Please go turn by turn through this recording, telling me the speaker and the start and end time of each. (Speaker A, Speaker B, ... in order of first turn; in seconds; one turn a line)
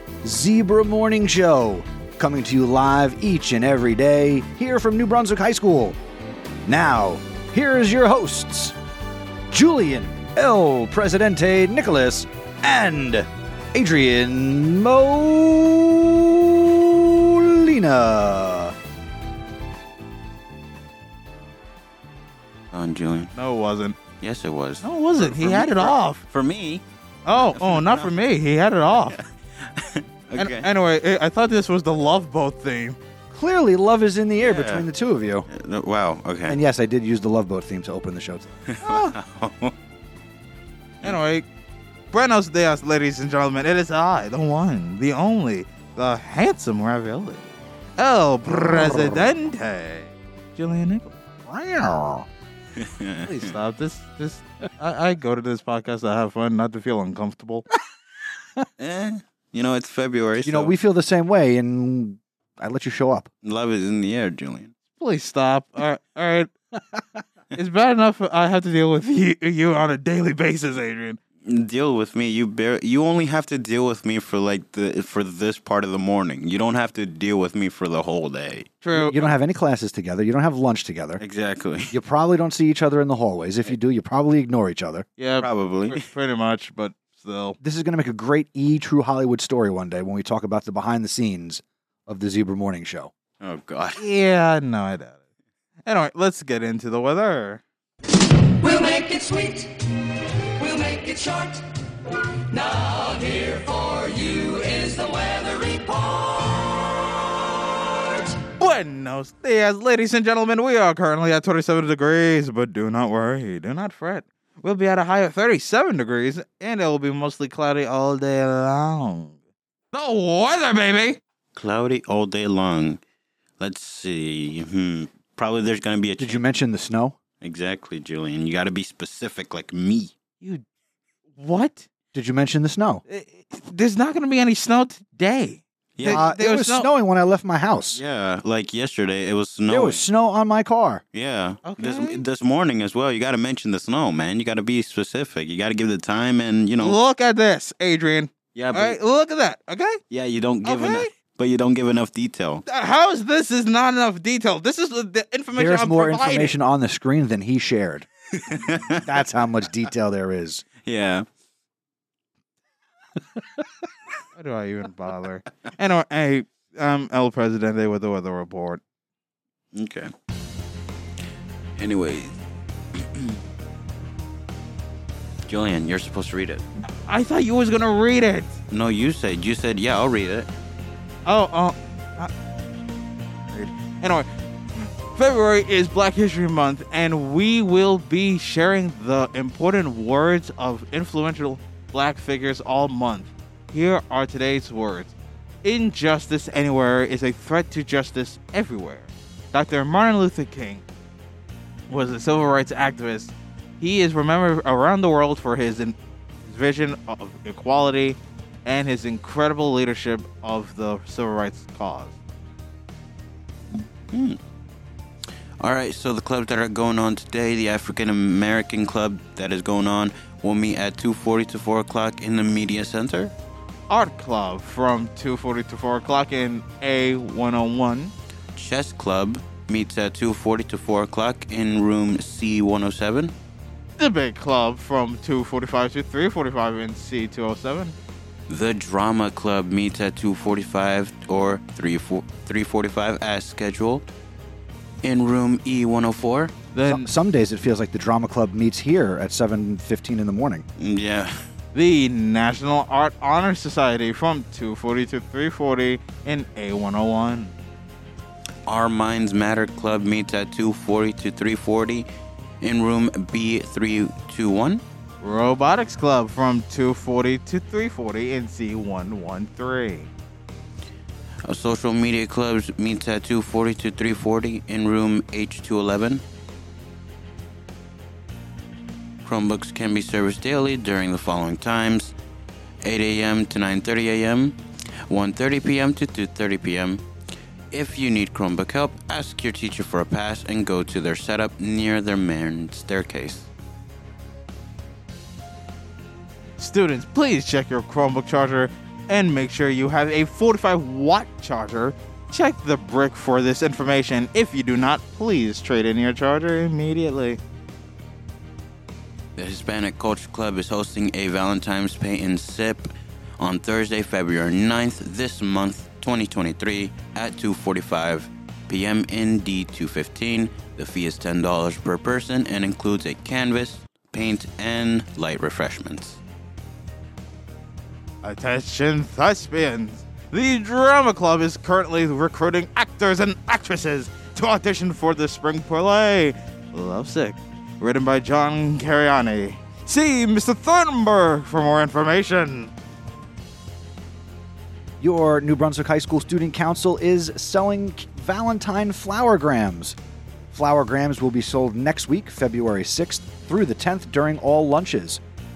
Speaker A: 0.2-6.0
Speaker A: 6.7-8.8
Speaker A: 9.5-18.8
Speaker B: 22.7-23.3
Speaker C: 23.3-24.0
Speaker B: 24.2-28.1
Speaker C: 24.8-26.2
Speaker C: 27.3-29.2
Speaker B: 28.9-30.7
Speaker C: 30.4-33.0
Speaker A: 33.3-35.5
Speaker B: 34.4-34.9
Speaker B: 35.5-36.6
Speaker A: 36.5-38.6
Speaker B: 38.8-39.8
Speaker C: 38.8-39.1
Speaker C: 41.0-41.5
Speaker C: 42.1-47.5
Speaker C: 48.0-51.1
Speaker A: 48.8-49.2
Speaker A: 51.5-52.3
Speaker B: 52.8-53.4
Speaker C: 53.2-57.6
Speaker B: 58.8-60.8
Speaker A: 60.4-63.3
Speaker B: 63.4-64.7
Speaker C: 65.0-66.5
Speaker C: 67.5-71.2
Speaker B: 71.5-78.7
Speaker C: 78.8-79.3
Speaker A: 78.9-81.2
Speaker B: 81.2-82.0
Speaker A: 81.9-85.1
Speaker C: 85.2-87.6
Speaker B: 85.4-86.0
Speaker A: 87.6-93.1
Speaker B: 93.4-94.0
Speaker C: 94.0-95.2
Speaker C: 95.8-97.6
Speaker D: 99.0-99.4
Speaker D: 100.8-101.4
Speaker D: 104.4-105.9
Speaker C: 108.4-119.4
Speaker C: 119.9-121.2
Speaker B: 121.5-123.0
Speaker B: 123.6-126.4
Speaker A: 126.2-127.2
Speaker B: 127.4-130.1
Speaker C: 131.3-131.9
Speaker A: 132.1-133.0
Speaker C: 133.1-136.9
Speaker B: 136.0-136.3
Speaker A: 136.1-138.0
Speaker B: 137.9-140.0
Speaker A: 139.7-141.0
Speaker B: 141.1-147.0
Speaker C: 141.6-142.2
Speaker C: 146.8-150.0
Speaker B: 148.6-149.0
Speaker B: 150.1-152.7
Speaker C: 150.6-151.1
Speaker C: 152.7-156.6
Speaker A: 155.5-158.1
Speaker B: 158.4-159.0
Speaker A: 159.0-160.7
Speaker B: 160.8-161.3
Speaker A: 163.4-163.6
Speaker C: 164.4-168.8
Speaker B: 169.7-170.1
Speaker B: 171.8-172.4
Speaker B: 175.5-176.6
Speaker C: 177.1-178.6
Speaker B: 178.7-180.5
Speaker C: 181.2-182.3
Speaker C: 183.5-200.8
Speaker C: 201.9-212.2
Speaker B: 214.1-214.4
Speaker B: 215.6-223.3
Speaker C: 223.9-228.1
Speaker B: 228.6-233.3
Speaker C: 234.0-237.9
Speaker B: 238.5-244.1
Speaker B: 245.0-246.5
Speaker C: 246.7-247.1
Speaker A: 246.8-250.7
Speaker B: 250.8-251.3
Speaker C: 251.7-257.6
Speaker B: 258.7-262.1
Speaker B: 262.6-264.8
Speaker C: 265.2-270.1
Speaker B: 271.4-276.2
Speaker B: 279.2-282.1
Speaker B: 282.8-284.6
Speaker B: 285.1-287.0
Speaker B: 287.7-293.5
Speaker C: 296.6-307.4
Speaker B: 309.4-326.2
Speaker C: 328.2-342.7
Speaker A: 345.0-350.0
Speaker A: 350.5-355.2